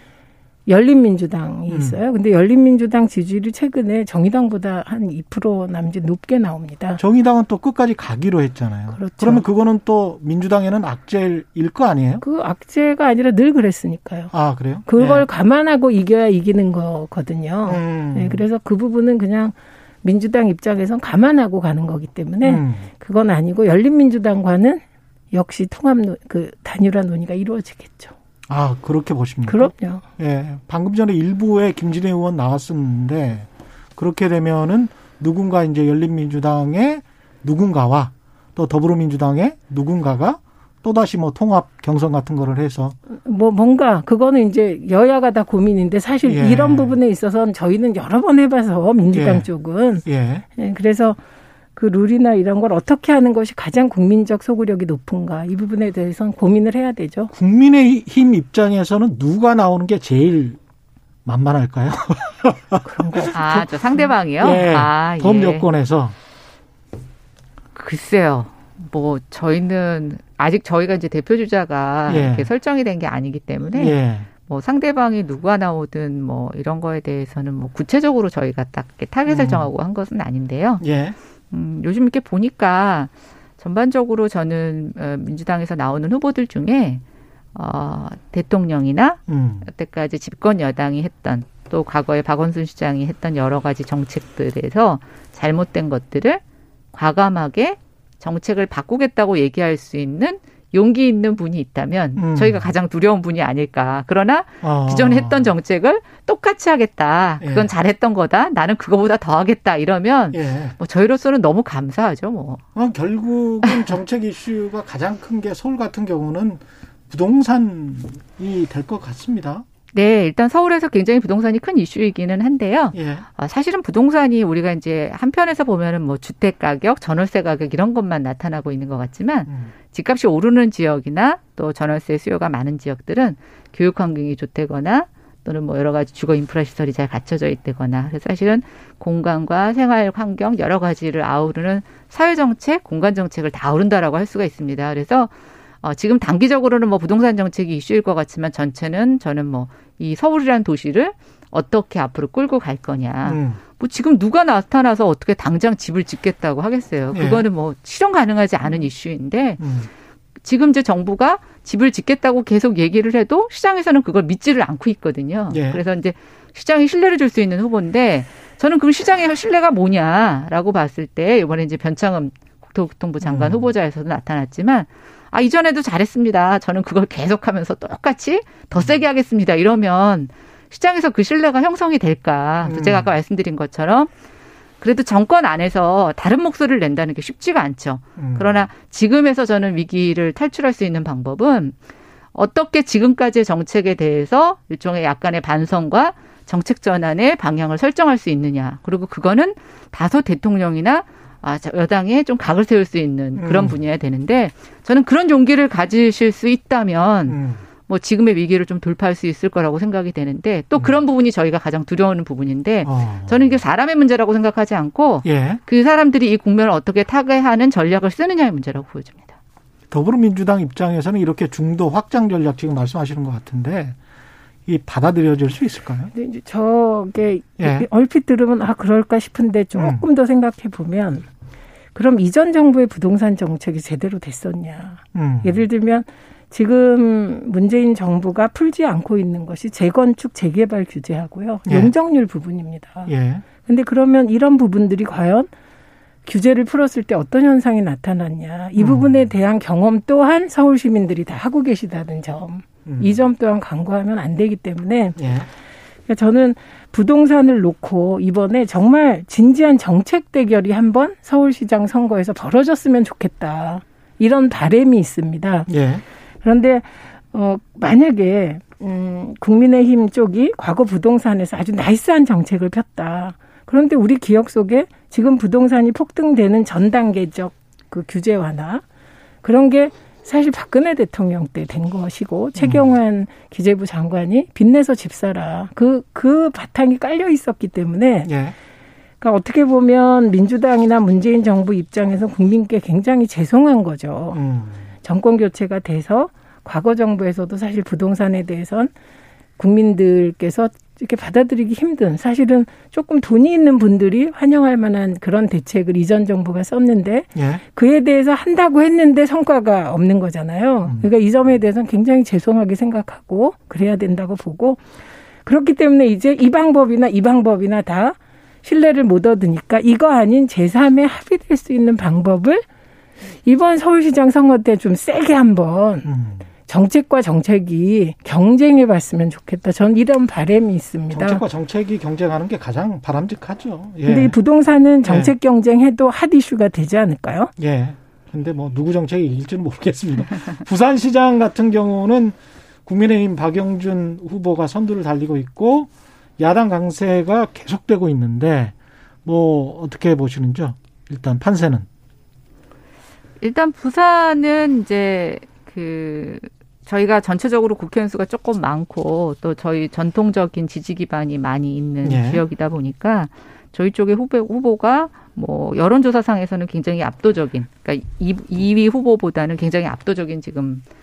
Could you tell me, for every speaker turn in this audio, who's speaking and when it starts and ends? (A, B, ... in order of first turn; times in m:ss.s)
0:00.7-0:07.0 A
0:01.7-0:02.0 B
0:07.0-0:12.2 B
0:08.9-0:09.4 A
0:12.2-0:14.3 A
0:14.3-0:15.3 B
0:14.9-0:28.2 A
0:17.6-0:18.4 B
0:22.4-0:22.9 B
0:28.5-0:43.0 B
0:29.5-0:30.0 A
0:43.1-0:51.2 A
0:46.3-0:47.0 B
0:49.1-0:49.5 B
0:50.0-0:50.4 B
0:51.8-0:57.3 A
0:57.3-1:00.6 B
1:01.3-1:03.7 B
1:02.8-1:03.3 A
1:03.3-1:05.7 C
1:04.4-1:06.2 B
1:07.8-1:20.8 C
1:12.1-1:12.5 B
1:13.8-1:14.3 B
1:19.3-1:19.7 B
1:20.8-1:21.2 B
1:21.5-1:27.0 C
1:27.6-1:36.4 C
1:29.3-1:29.7 B
1:36.9-1:52.6 C
1:42.2-1:42.7 B
1:44.6-1:45.5 B
1:47.4-1:47.7 B
1:50.3-1:50.8 B
1:52.8-1:59.6 B
1:59.9-2:39.6 C
2:02.9-2:03.3 B
2:09.5-2:09.8 B
2:33.3-2:33.6 B
2:37.1-2:37.5 B
2:39.6-2:39.9 B
2:40.4-3:04.1 C
2:45.5-2:45.8 B
2:53.2-2:53.7 B
2:58.8-2:59.0 B
3:02.6-3:03.2 B
3:04.8-3:11.8 C
3:08.2-3:08.7 B
3:12.3-3:39.4 C
3:23.4-3:23.8 B
3:27.3-3:27.6 B
3:32.8-3:33.6 B
3:35.2-3:35.6 B
3:39.9-3:44.0 B
3:44.7-3:46.1 B
3:46.1-3:51.3 A
3:47.6-3:47.9 B
3:49.7-3:50.1 B
3:51.9-4:05.5 A
3:55.1-3:55.6 B
4:01.7-4:01.9 B
4:03.1-4:03.4 B
4:06.3-4:15.2 A
4:08.8-4:09.3 B
4:12.9-4:13.2 B
4:15.2-4:15.5 B
4:16.1-4:25.7 A
4:25.7-4:26.0 B
4:26.4-4:38.8 A
4:39.4-4:48.3 A
4:42.6-4:43.0 B
4:48.2-4:48.6 B
4:49.2-4:54.4 A
4:54.3-4:54.9 B
4:55.0-4:58.9 A
4:59.6-5:14.8 A
5:07.4-5:07.6 B
5:15.4-5:22.6 A
5:23.4-5:26.1 A
5:26.0-5:26.5 B
5:26.7-5:31.4 A
5:31.1-5:34.4 B
5:34.1-5:37.5 A
5:35.0-5:35.3 B
5:37.6-5:51.9 B
5:53.4-6:10.8 C
6:02.0-6:02.4 B